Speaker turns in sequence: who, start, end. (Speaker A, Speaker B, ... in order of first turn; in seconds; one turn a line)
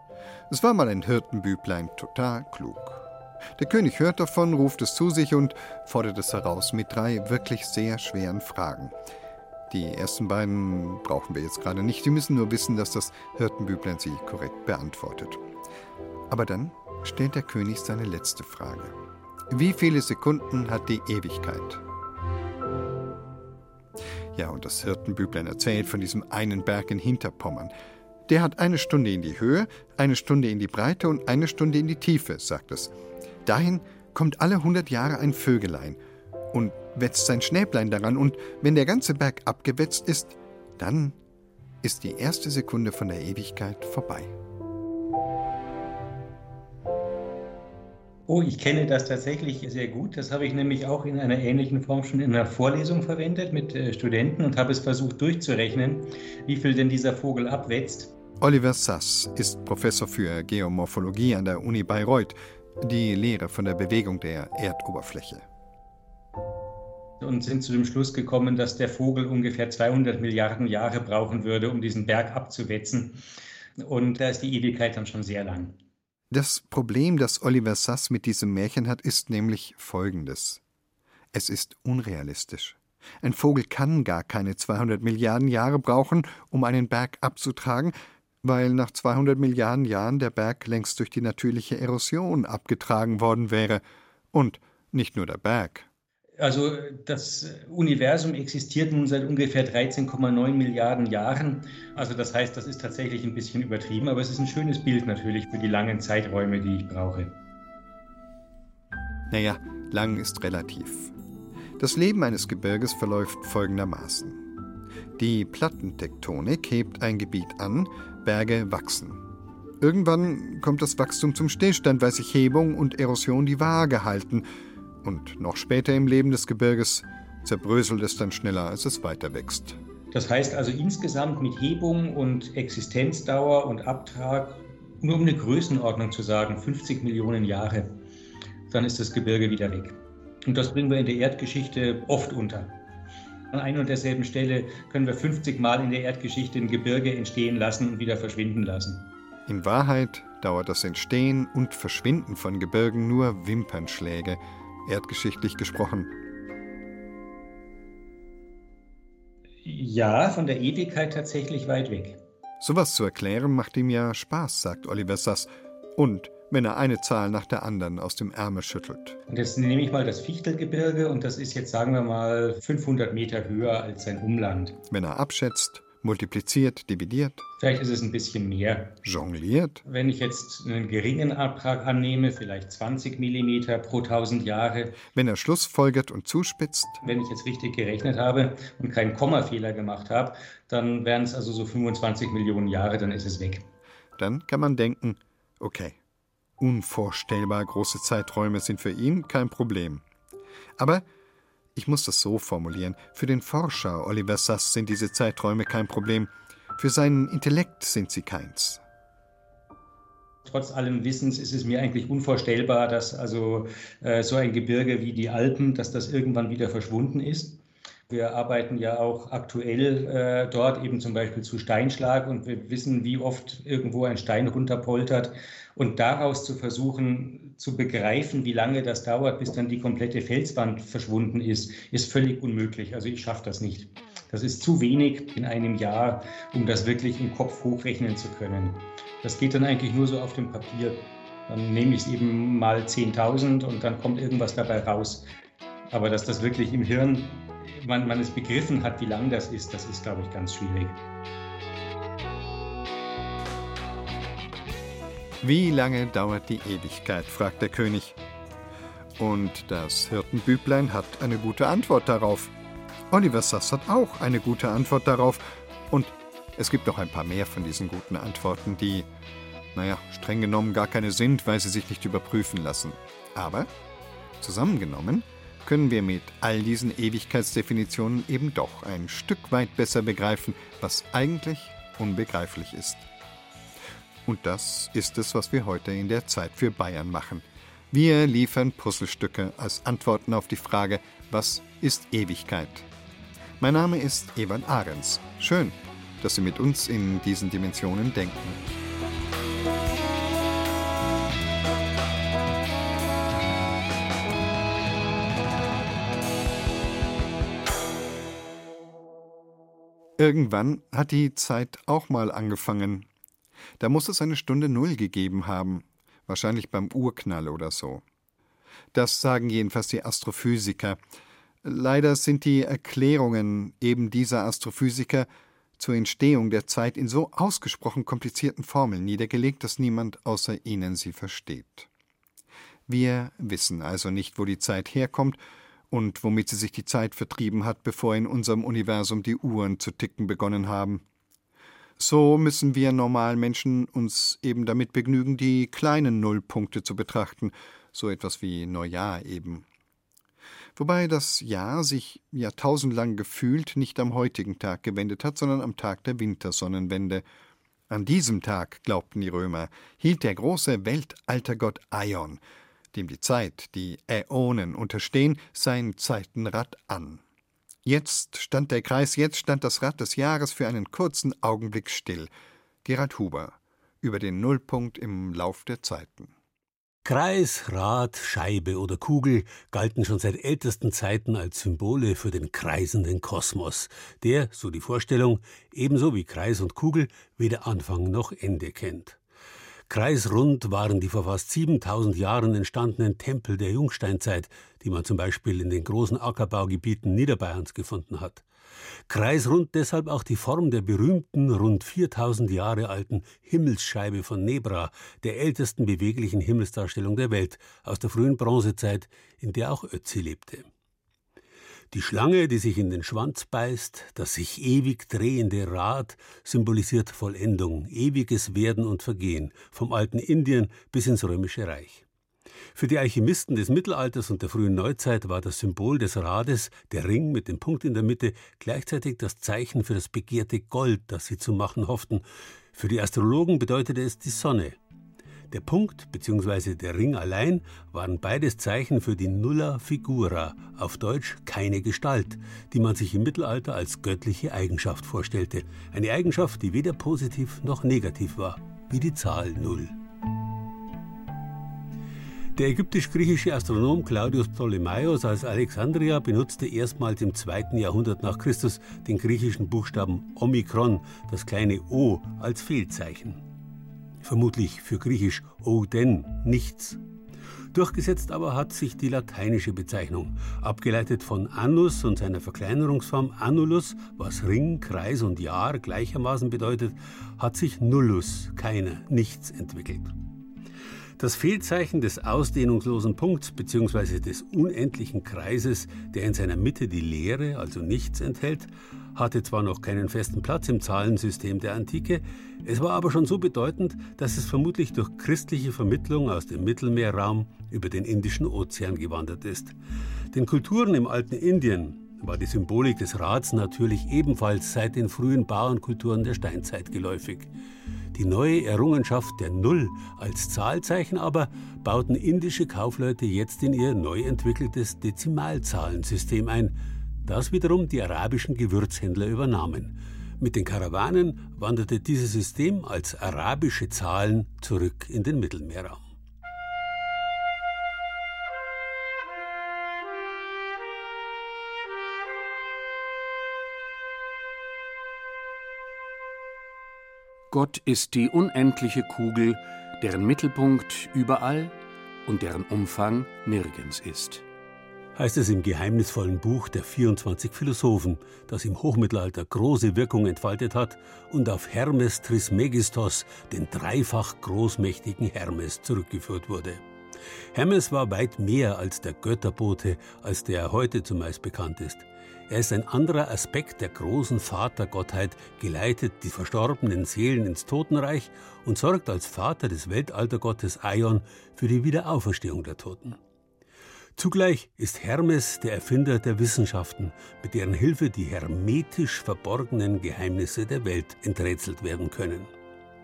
Speaker A: 0.5-3.0
Speaker A: 3.6-8.9
Speaker A: 9.7-15.4
Speaker A: 16.3-18.9
Speaker A: 19.5-21.8
Speaker A: 24.4-27.7
Speaker A: 28.3-32.9
Speaker A: 33.5-36.0
Speaker A: 36.5-41.2
Speaker A: 41.8-44.3
Speaker B: 48.3-58.1
Speaker A: 58.4-65.5
Speaker B: 67.2-73.2
Speaker B: 73.8-75.8
Speaker A: 76.3-80.6
Speaker A: 81.3-95.9
Speaker B: 96.4-107.3
Speaker A: 109.3-111.1
Speaker A: 111.8-114.4
Speaker A: 115.2-119.2
Speaker A: 119.8-124.5
Speaker A: 125.0-129.8
Speaker B: 130.1-138.0
Speaker B: 138.7-142.8
Speaker B: 143.5-149.1
Speaker A: 149.5-156.1
Speaker B: 159.6-162.2
Speaker A: 162.6-169.2
Speaker B: 169.3-174.8
Speaker A: 174.9-177.4
Speaker B: 177.6-179.0
Speaker A: 179.0-179.8
Speaker B: 179.8-185.0
Speaker A: 185.1-187.0
Speaker B: 187.0-193.7
Speaker A: 194.2-196.0
Speaker A: 196.6-200.0
Speaker A: 200.8-201.1
Speaker A: 201.8-208.8
Speaker B: 210.4-245.3
Speaker B: 245.9-251.0
Speaker A: 255.4-258.2
Speaker A: 259.2-262.5
Speaker A: 263.1-269.1
Speaker A: 269.8-273.7
Speaker A: 274.4-283.1
Speaker A: 284.3-292.9
Speaker A: 293.6-298.6
Speaker A: 310.2-313.1
Speaker A: 313.8-318.0
Speaker A: 318.9-321.0
Speaker A: 321.6-331.9
Speaker A: 332.9-335.4
Speaker A: 335.9-341.0
Speaker A: 342.0-349.6
Speaker A: 350.8-357.2
Speaker A: 357.9-362.4
Speaker A: 362.9-367.2
Speaker A: 367.9-372.3
Speaker A: 372.8-376.3
Speaker C: 377.1-389.2
Speaker C: 389.9-398.4
Speaker C: 399.1-410.7
Speaker C: 411.9-422.0
Speaker C: 422.8-432.2
Speaker C: 432.7-434.8
Speaker C: 435.5-449.9
Speaker C: 452.6-463.4
Speaker C: 464.2-467.0
Speaker C: 467.7-480.1
Speaker C: 481.2-499.8
Speaker C: 500.3-507.5
Speaker C: 508.1-526.1
Speaker D: 537.5-544.4
Speaker C: 545.1-556.8
Speaker C: 557.5-573.2
Speaker C: 574.2-582.5